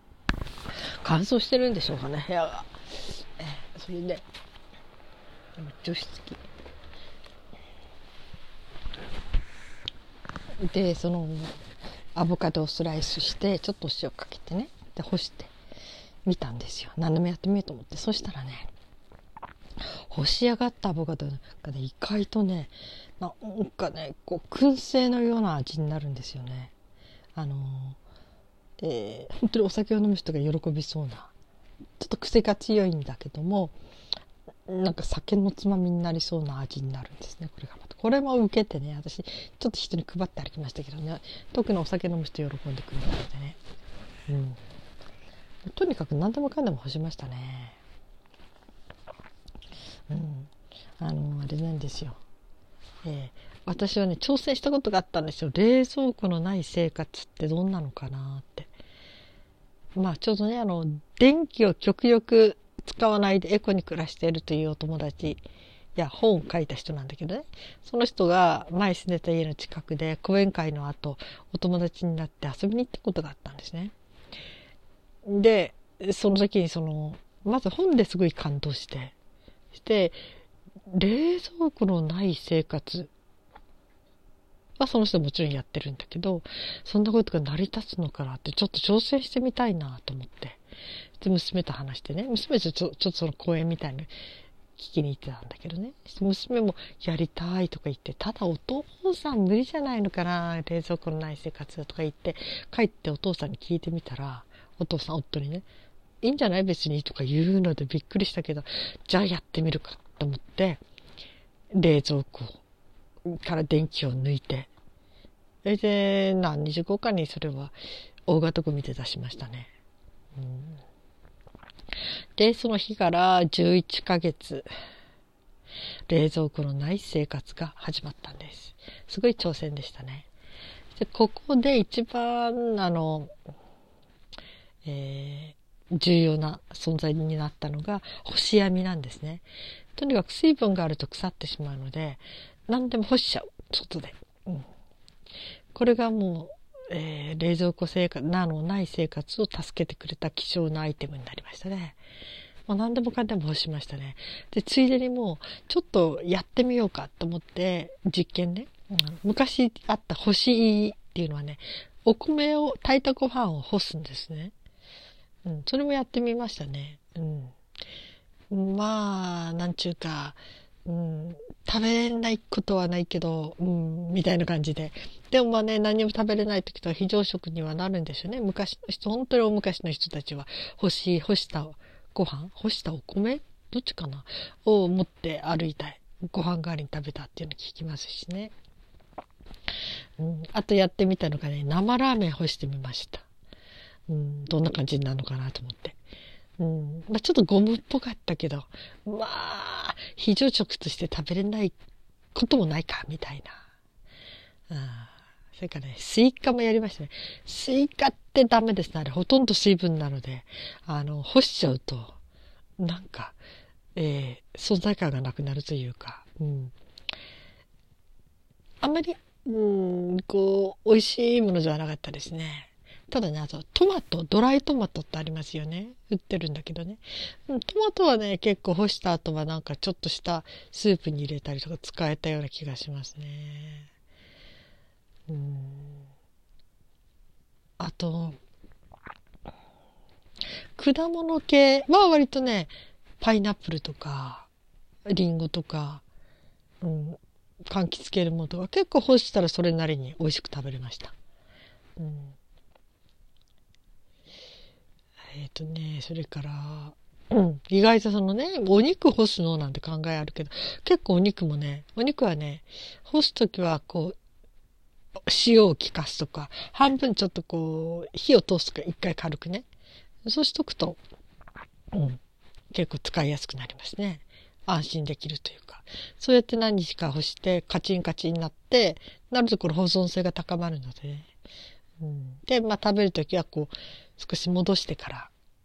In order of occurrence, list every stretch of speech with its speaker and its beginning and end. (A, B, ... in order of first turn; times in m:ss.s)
0:01.0-0:04.2 A
0:05.6-0:06.4 A
0:10.6-0:11.6 A
0:12.1-0:15.5 A
0:16.2-0:18.7 A
0:19.8-0:26.7 A
0:27.3-0:28.0 A
0:28.8-0:31.3 A
0:32.0-0:33.8 A
0:34.7-0:43.6 A
0:44.3-0:44.6 A
0:45.6-0:47.8 A
0:50.1-0:52.2 A
0:53.0-0:58.7 A
0:59.9-1:05.4 A
1:06.0-1:13.9 A
1:15.2-1:19.1 A
1:19.7-1:20.2 A
1:20.9-1:23.1 A
1:24.8-1:30.6 A
1:31.2-1:34.1 A
1:34.8-1:45.7 A
1:46.2-1:50.8 A
1:51.7-1:52.6 A
1:53.2-1:54.7 A
1:55.6-1:57.8 A
1:58.3-1:59.7 A
2:00.4-2:00.8 A
2:02.4-2:04.7 A
2:06.1-2:10.3 A
2:11.0-2:13.3 A
2:14.8-2:19.4 A
2:20.0-2:24.7 A
2:25.7-2:32.0 A
2:32.7-2:44.5 A
2:45.4-2:47.6 A
2:48.5-3:08.5 A
3:10.2-3:13.2 A
3:14.1-3:16.0 A
3:16.6-3:21.8 A
3:22.3-3:23.6 A
3:24.7-3:32.2 A
3:32.8-3:33.4 A
3:33.9-3:36.7 A
3:38.8-3:53.9 A
3:55.3-3:56.1 A
3:57.8-3:58.4 A
4:00.8-4:04.5 A
4:05.0-4:06.0 A
4:06.8-4:11.1 A
4:12.0-4:12.3 A
4:15.3-4:24.2 A
4:25.2-4:29.6 A
4:30.2-4:31.0 A
4:31.9-4:32.2 A
4:32.7-4:41.3 A
4:42.0-4:45.3 A